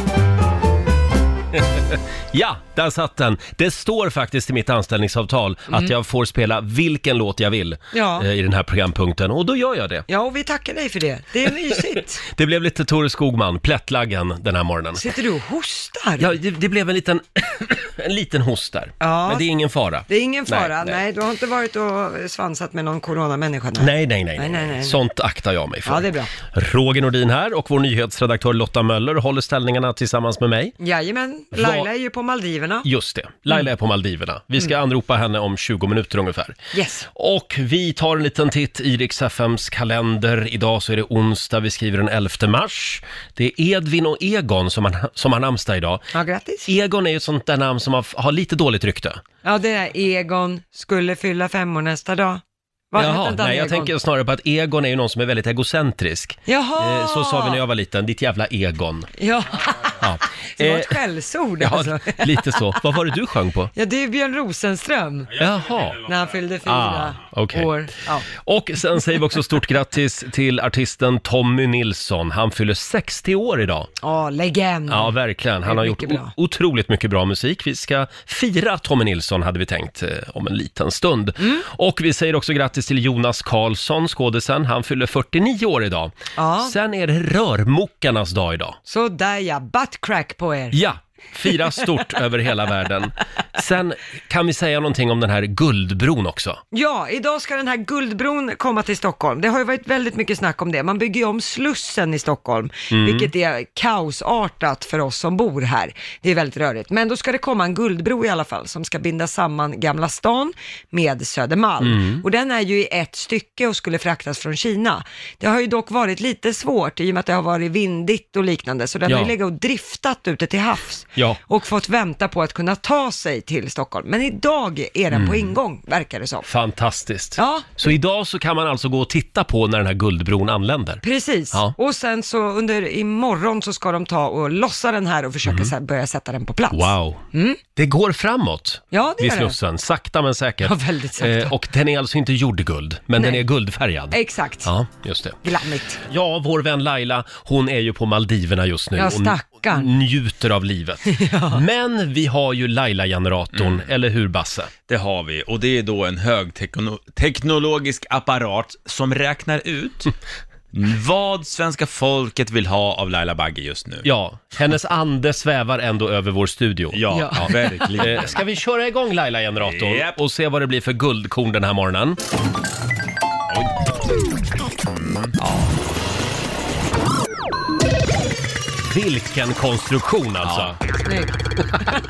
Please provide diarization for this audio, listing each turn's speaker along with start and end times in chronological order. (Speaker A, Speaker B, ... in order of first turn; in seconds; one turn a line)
Speaker A: 1.7-10.1
Speaker B: 7.9-8.3
Speaker B: 10.1-12.2
Speaker A: 12.3-15.1
Speaker B: 15.0-16.3
Speaker A: 16.2-21.0
Speaker B: 19.0-19.4
Speaker B: 20.1-25.0
Speaker A: 23.8-30.8
Speaker B: 25.9-26.3
Speaker B: 30.8-32.9
Speaker A: 31.5-31.9
Speaker A: 32.9-36.6
Speaker B: 36.7-37.1
Speaker A: 37.2-46.0
Speaker B: 46.1-46.7
Speaker A: 46.7-49.2
Speaker B: 49.4-53.9
Speaker A: 53.0-59.1
Speaker B: 56.5-57.6
Speaker B: 59.2-60.0
Speaker A: 60.0-61.0
Speaker B: 60.6-62.7
Speaker A: 61.6-63.7
Speaker B: 63.8-65.3
Speaker C: 65.3-66.4
Speaker A: 65.4-66.0
Speaker B: 66.1-68.3
Speaker A: 66.6-67.7
Speaker A: 68.3-73.9
Speaker B: 74.0-76.3
Speaker A: 74.9-88.8
Speaker B: 86.4-86.7
Speaker B: 88.9-90.8
Speaker A: 90.7-96.6
Speaker B: 96.7-126.5
Speaker A: 102.9-103.3
Speaker A: 111.8-112.2
Speaker A: 119.1-119.3
Speaker A: 125.1-125.5
Speaker A: 126.5-131.0
Speaker B: 127.4-127.7
Speaker B: 131.0-137.6
Speaker A: 135.4-135.7
Speaker A: 136.7-137.2
Speaker A: 137.8-145.4
Speaker B: 138.9-139.6
Speaker B: 140.6-141.5
Speaker B: 143.2-143.4
Speaker B: 144.1-144.7
Speaker B: 145.4-146.0
Speaker A: 146.1-154.7
Speaker B: 149.0-149.9
Speaker B: 151.1-151.6
Speaker C: 153.5-153.9
Speaker C: 154.9-160.1
Speaker C: 160.7-164.1
Speaker A: 164.0-172.2
Speaker C: 166.9-168.4
Speaker B: 167.1-167.4
Speaker C: 169.6-170.2
Speaker C: 173.5-173.9
Speaker C: 174.8-175.4
Speaker A: 175.4-175.7
Speaker A: 178.9-180.8
Speaker C: 180.4-180.7
Speaker B: 181.1-181.3